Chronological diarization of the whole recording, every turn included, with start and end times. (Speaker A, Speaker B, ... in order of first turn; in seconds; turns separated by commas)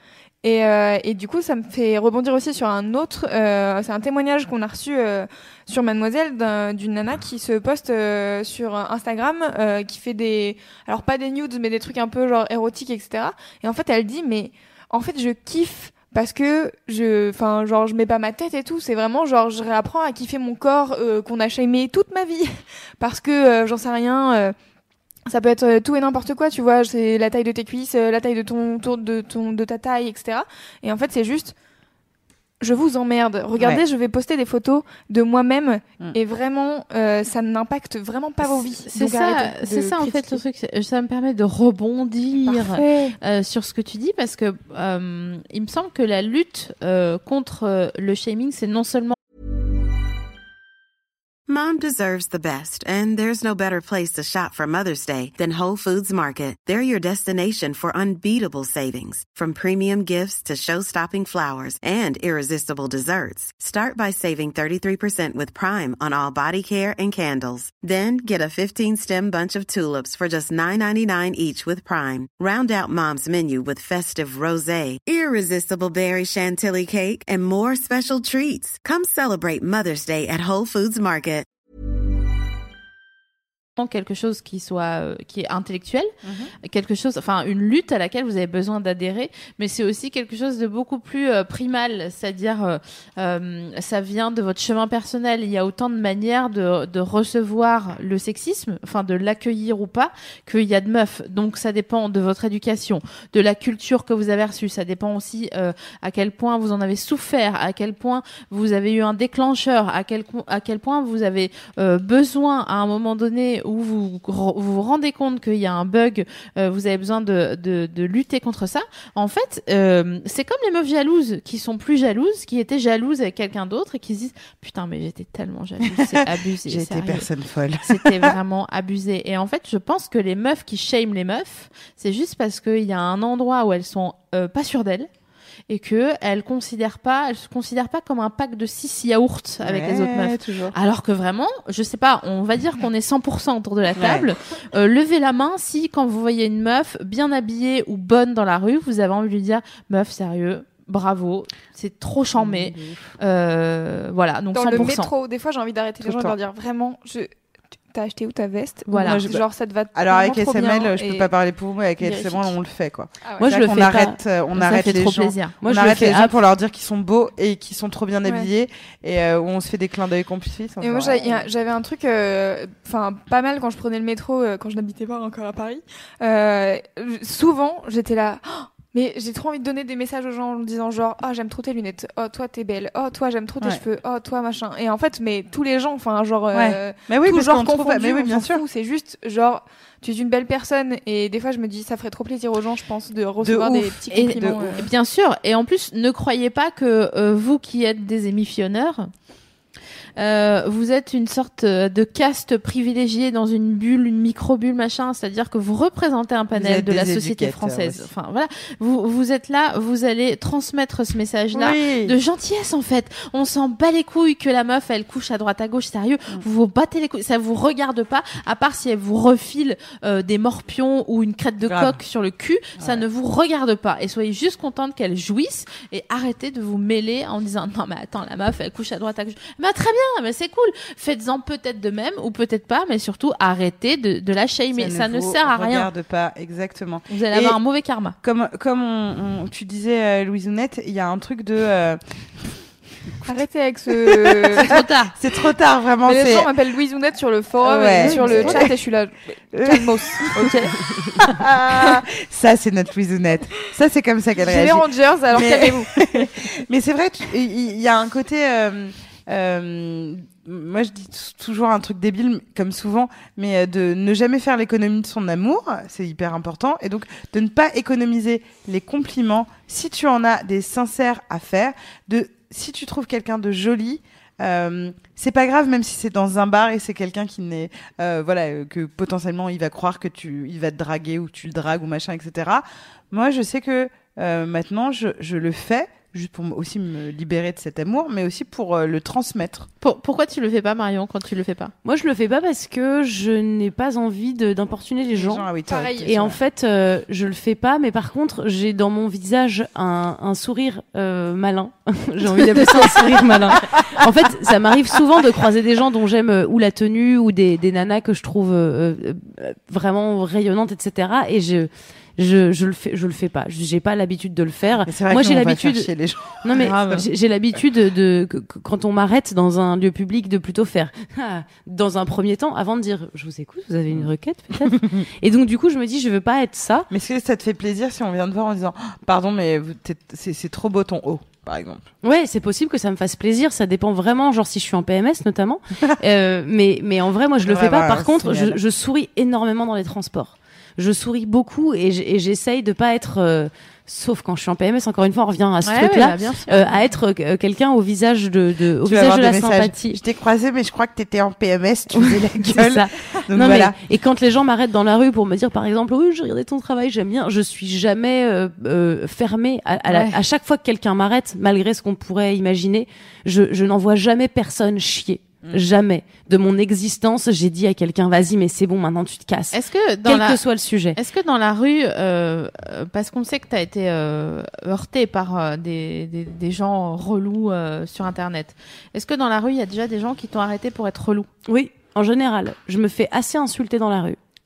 Speaker A: 0.4-24.5, Speaker A: 25.3-31.5, Speaker A: 32.6-40.4, Speaker B: 33.6-33.8, Speaker C: 38.8-49.1, Speaker B: 42.6-43.1, Speaker D: 51.5-81.5, Speaker C: 83.8-86.1, Speaker B: 86.2-86.5, Speaker C: 86.6-127.3, Speaker B: 125.8-128.3, Speaker C: 127.8-135.1, Speaker C: 135.7-155.1, Speaker B: 139.6-140.7, Speaker B: 143.9-144.3, Speaker B: 152.4-153.1, Speaker A: 154.5-157.3, Speaker B: 156.0-156.3, Speaker A: 157.9-161.3, Speaker C: 158.9-159.2, Speaker B: 159.0-171.4, Speaker C: 162.0-162.5, Speaker E: 163.4-164.2, Speaker C: 164.5-165.5, Speaker E: 165.6-166.4, Speaker A: 170.8-194.9, Speaker B: 186.5-188.6, Speaker B: 193.4-194.7, Speaker C: 194.1-199.1, Speaker C: 200.2-235.9, Speaker B: 206.5-208.1, Speaker B: 211.5-212.2, Speaker B: 221.6-222.0, Speaker B: 234.8-237.6, Speaker C: 237.1-238.2, Speaker B: 238.2-242.0, Speaker A: 243.2-244.7, Speaker B: 244.1-244.6, Speaker C: 244.6-245.1, Speaker B: 245.1-246.5, Speaker A: 246.1-250.8, Speaker B: 247.6-248.7, Speaker C: 248.0-248.6, Speaker B: 249.5-250.5, Speaker B: 251.2-289.7, Speaker A: 251.8-252.0, Speaker A: 254.4-256.3, Speaker C: 289.8-291.7, Speaker E: 291.8-295.5, Speaker B: 295.1-296.4, Speaker A: 295.6-296.3, Speaker E: 296.0-315.9, Speaker B: 302.6-303.8, Speaker B: 314.9-317.0, Speaker E: 316.4-326.9, Speaker C: 316.6-317.0, Speaker B: 326.9-331.9, Speaker E: 332.0-350.0, Speaker B: 337.4-338.6, Speaker C: 345.6-346.8, Speaker B: 348.8-353.8, Speaker E: 351.9-371.0, Speaker C: 359.9-360.2, Speaker C: 369.5-370.4, Speaker C: 370.9-381.3, Speaker E: 381.5-384.2